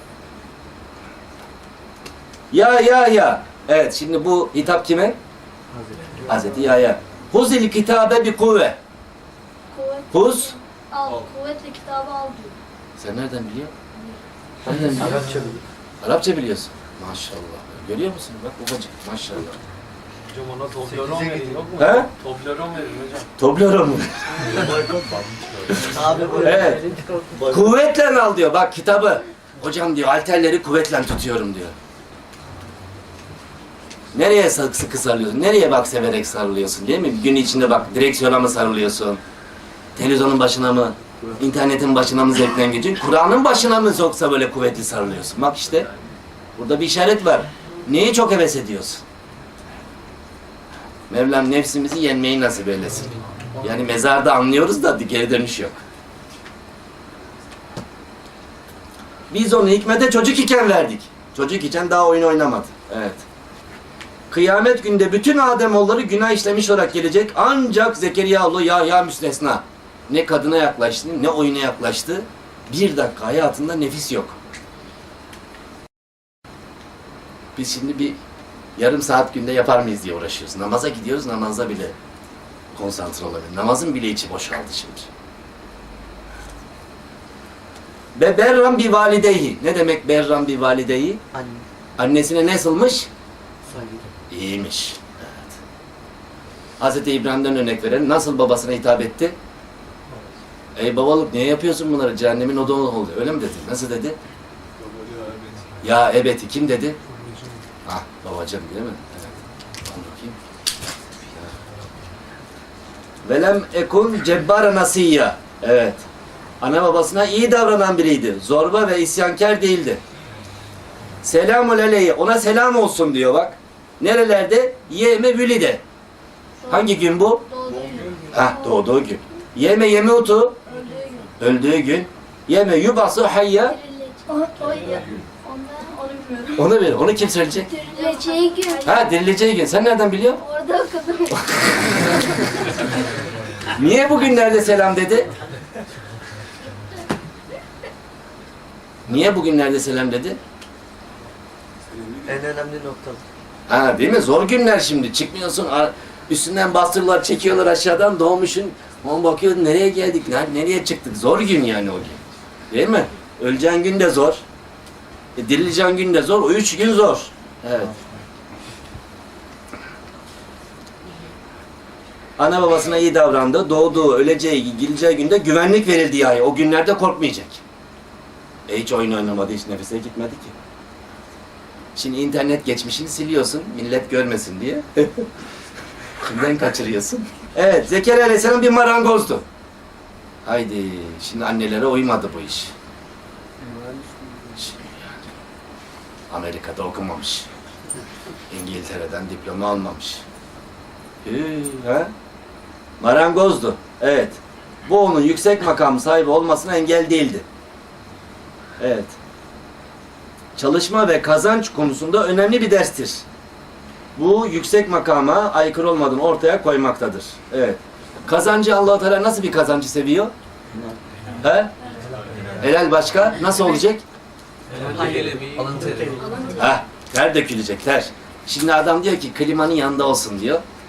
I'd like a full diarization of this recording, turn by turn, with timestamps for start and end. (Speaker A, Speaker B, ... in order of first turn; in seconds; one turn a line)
Speaker A: 2.5-5.2
Speaker B: 5.7-6.6
Speaker A: 6.3-8.8
Speaker C: 9.7-12.6
Speaker A: 10.1-10.6
Speaker A: 13.0-13.7
Speaker A: 14.7-15.3
Speaker B: 14.7-15.6
Speaker A: 16.0-19.6
Speaker D: 20.3-23.3
Speaker B: 20.9-21.6
Speaker A: 21.8-22.1
Speaker A: 23.4-24.7
Speaker B: 24.5-27.7
Speaker A: 25.7-26.9
Speaker D: 26.0-26.5
Speaker A: 27.4-31.7
Speaker A: 34.1-39.2
Speaker A: 40.0-45.9
Speaker A: 46.6-49.0
Speaker A: 51.1-55.8
Speaker A: 59.3-63.2
Speaker A: 64.3-74.4
Speaker A: 77.5-78.2
Speaker A: 78.8-82.0
Speaker A: 82.7-85.1
Speaker A: 88.2-91.2
Speaker B: 91.3-91.7
Speaker A: 92.0-93.1
Speaker B: 93.7-94.0
Speaker A: 94.3-95.5
Speaker A: 96.8-99.4
Speaker A: 100.8-104.2
Speaker D: 104.8-105.6
Speaker A: 105.8-107.0
Speaker D: 107.2-107.4
Speaker A: 107.8-109.3
Speaker A: 109.8-110.4
Speaker A: 113.2-116.0
Speaker A: 116.6-120.0
Speaker A: 121.2-125.8
Speaker A: 126.7-127.5
Speaker C: 127.5-128.5
Speaker A: 128.3-130.6
Speaker C: 130.7-131.3
Speaker A: 131.4-133.8
Speaker C: 133.7-136.6
Speaker D: 134.6-135.1
Speaker A: 136.6-137.7
Speaker C: 137.7-139.1
Speaker A: 138.8-140.4
Speaker C: 140.4-141.7
Speaker A: 141.5-142.4
Speaker A: 143.7-145.3
Speaker A: 149.1-150.4
Speaker B: 152.1-153.2
Speaker A: 153.7-164.4
Speaker A: 165.4-167.9
Speaker A: 172.4-177.6
Speaker A: 178.7-180.6
Speaker A: 182.0-185.3
Speaker A: 186.2-189.4
Speaker A: 190.4-192.7
Speaker B: 193.6-194.6
Speaker A: 194.6-194.8
Speaker A: 196.3-197.5
Speaker A: 198.5-200.2
Speaker A: 201.2-202.1
Speaker A: 203.0-207.4
Speaker A: 208.8-209.2
Speaker A: 210.6-213.2
Speaker A: 214.2-220.3
Speaker A: 221.4-221.7
Speaker A: 222.6-224.0
Speaker D: 224.7-226.2
Speaker B: 224.7-226.5
Speaker A: 226.5-230.6